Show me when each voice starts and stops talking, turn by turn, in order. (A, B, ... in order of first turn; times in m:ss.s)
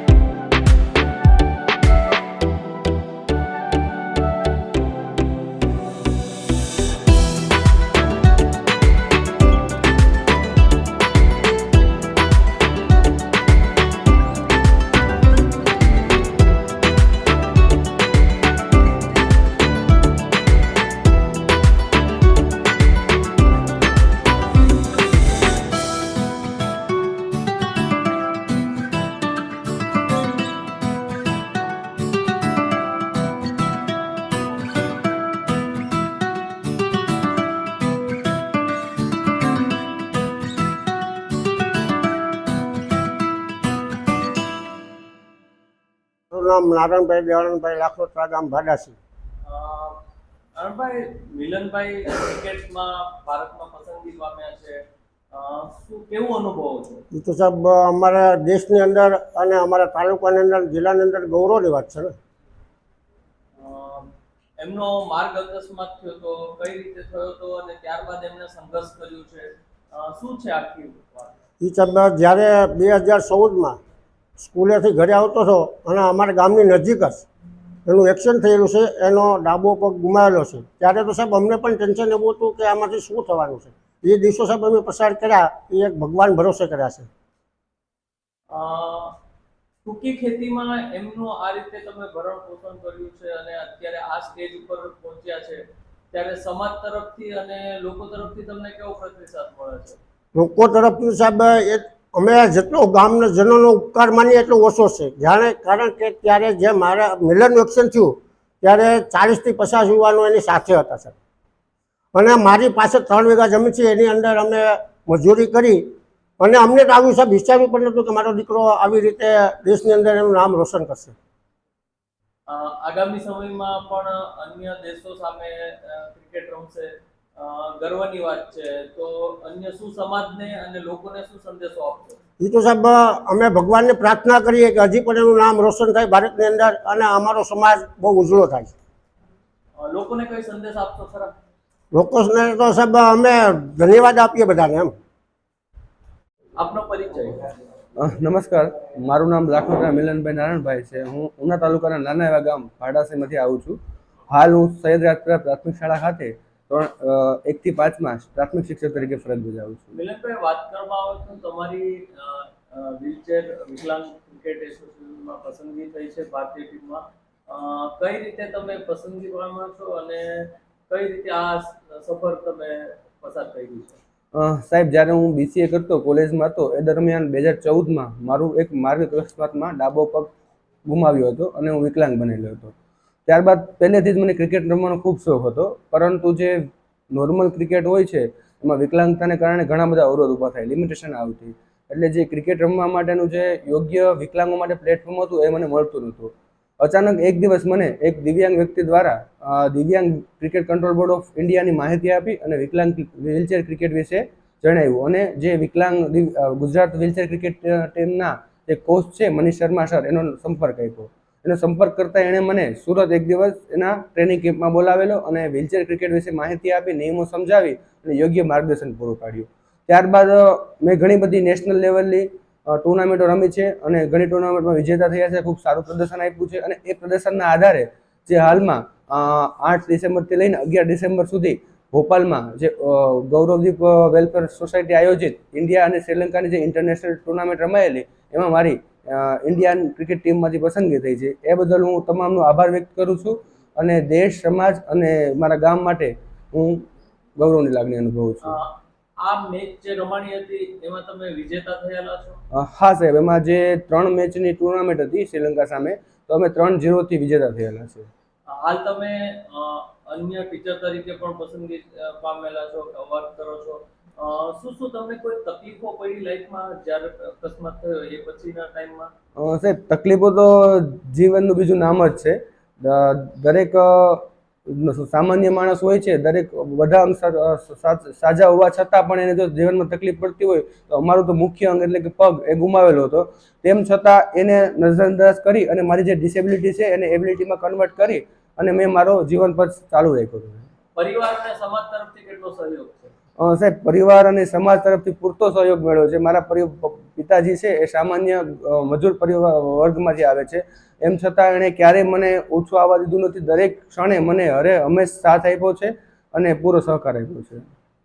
0:46.3-0:49.0 A
0:49.4-0:50.0 B
0:50.5-0:54.8 B
0:55.3-0:57.0 B
0:57.1-1:02.2 A
1:03.6-1:11.4 B
1:11.6-1:13.8 A
1:14.4-1:17.3 A
1:17.9-1:27.1 A
1:28.5-1:29.2 B
1:29.8-1:35.6 B
1:36.1-1:40.0 B
1:40.4-1:51.2 A
1:52.1-1:55.8 A
1:56.4-2:01.2 A
2:02.5-2:12.2 B
2:12.4-2:18.7 A
2:19.8-2:21.4 B
2:21.9-2:24.9 A
2:26.6-2:27.6 B
2:28.0-2:33.8 C
2:34.3-2:40.0 C
2:39.9-2:54.0 B
2:54.3-3:00.3 C
3:00.8-3:02.7 C
3:03.3-3:06.6 C
3:07.1-4:08.6 C
4:08.4-4:12.4 B
4:12.5-4:18.1 C
4:18.5-4:29.1 B
4:29.4-4:50.7 C
4:51.0-4:53.1 B
4:53.4-5:07.7 C